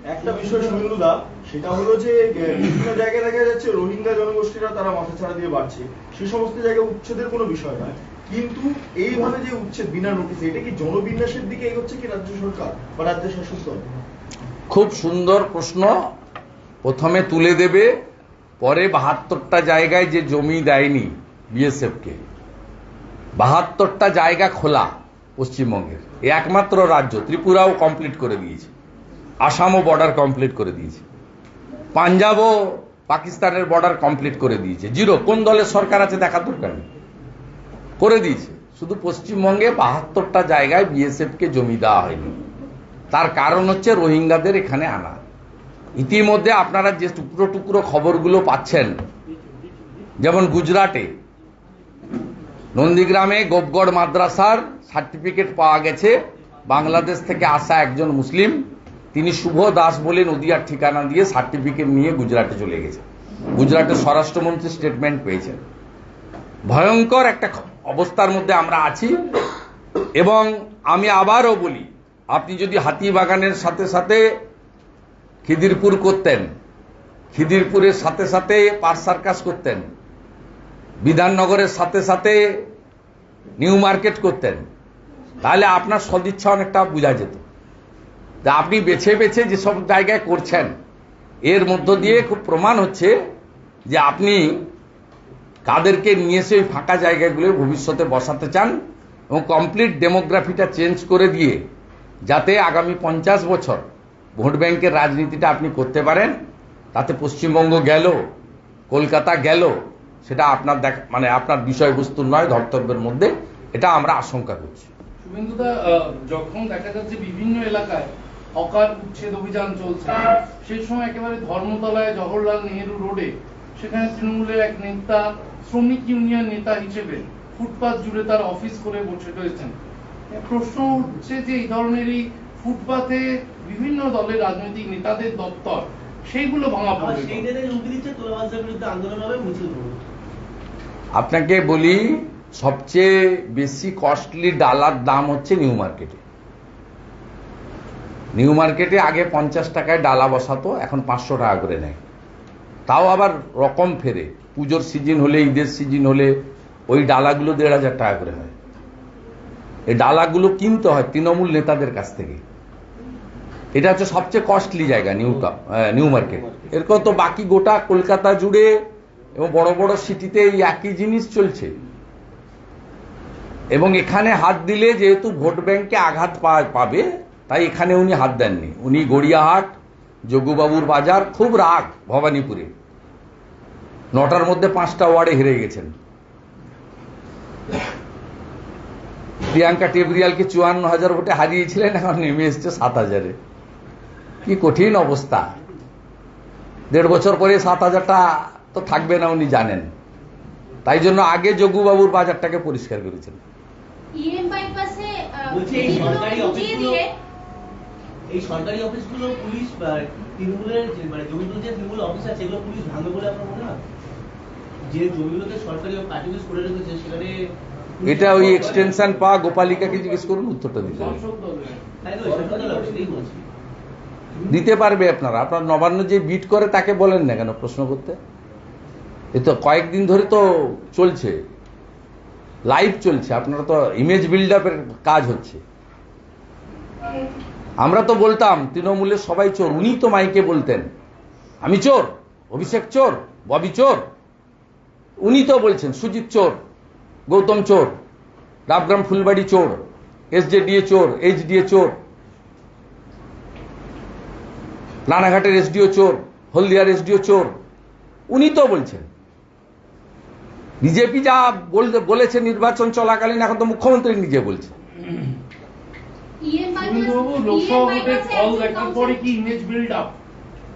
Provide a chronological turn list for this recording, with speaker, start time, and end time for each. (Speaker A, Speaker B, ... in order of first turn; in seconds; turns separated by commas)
Speaker A: 0.1-13.8, Speaker B: 14.7-15.9, Speaker B: 16.8-17.9, Speaker B: 18.6-22.2, Speaker B: 23.4-28.7, Speaker B: 29.4-31.0, Speaker B: 31.9-36.9, Speaker B: 38.0-42.4, Speaker B: 43.1-45.2, Speaker B: 46.0-49.0, Speaker B: 50.2-51.1, Speaker B: 52.7-63.0, Speaker B: 63.5-65.6, Speaker B: 66.7-69.1, Speaker B: 70.2-74.3, Speaker B: 75.4-76.5, Speaker B: 77.3-79.9, Speaker B: 81.0-82.6, Speaker B: 83.6-84.6, Speaker B: 85.4-87.4, Speaker B: 88.4-90.7, Speaker B: 91.4-93.2, Speaker B: 93.9-94.7, Speaker B: 95.6-98.8, Speaker B: 99.3-101.6, Speaker B: 102.3-103.8, Speaker B: 104.4-106.4, Speaker B: 106.9-108.2, Speaker B: 108.9-114.9, Speaker C: 115.2-129.7, Speaker C: 130.3-137.5, Speaker D: 136.9-140.0, Speaker B: 141.1-146.2, Speaker B: 148.3-152.0, Speaker B: 152.9-156.3, Speaker B: 156.9-158.5, Speaker B: 159.9-162.4, Speaker B: 163.7-168.7, Speaker B: 169.3-171.8, Speaker B: 173.7-179.7, Speaker B: 180.3-182.7, Speaker B: 184.1-185.9, Speaker B: 189.5-193.4, Speaker B: 194.4-195.4, Speaker B: 196.9-199.9, Speaker B: 200.8-203.4, Speaker E: 204.1-207.1, Speaker D: 205.5-207.0, Speaker D: 208.3-213.8, Speaker D: 214.9-218.9, Speaker B: 218.0-221.2, Speaker C: 220.9-223.1, Speaker D: 222.0-223.4, Speaker B: 224.5-228.2, Speaker B: 229.3-231.4, Speaker B: 232.7-235.6, Speaker B: 237.8-240.9, Speaker B: 241.6-244.1, Speaker B: 245.2-246.6, Speaker B: 247.3-247.9, Speaker B: 248.7-249.8, Speaker B: 250.3-251.9, Speaker B: 255.1-257.5, Speaker B: 258.3-259.1, Speaker B: 260.8-264.7, Speaker E: 266.4-269.2, Speaker C: 266.8-270.1